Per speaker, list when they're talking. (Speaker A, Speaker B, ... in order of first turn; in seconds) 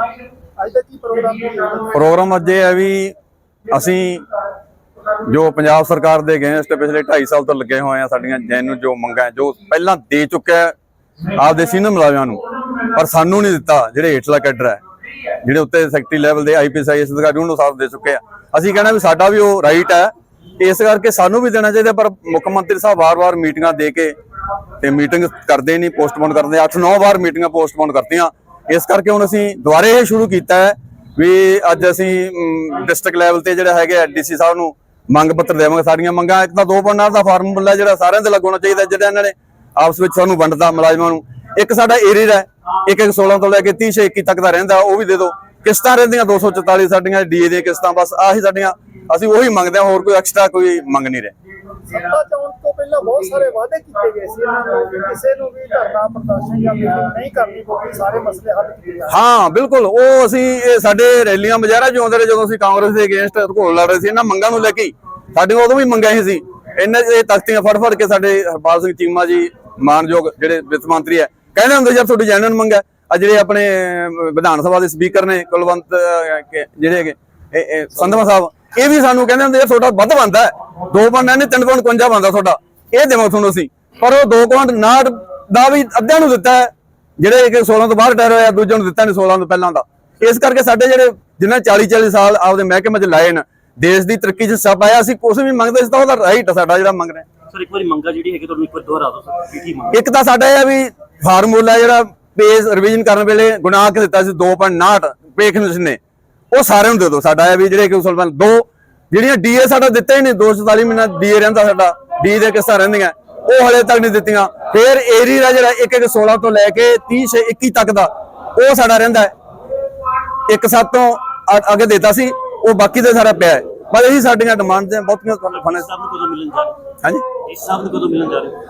Speaker A: 0.6-1.9, 51.9-59.1
Speaker B: 1.9-3.1, 3.7-4.2, 5.3-10.7, 11.4-12.4, 12.9-14.8, 15.4-24.1, 24.8-51.3, 59.1-97.3, 99.9-106.0, 106.5-119.3, 120.5-125.9
Speaker C: 97.5-100.0, 125.7-126.7, 127.5-128.6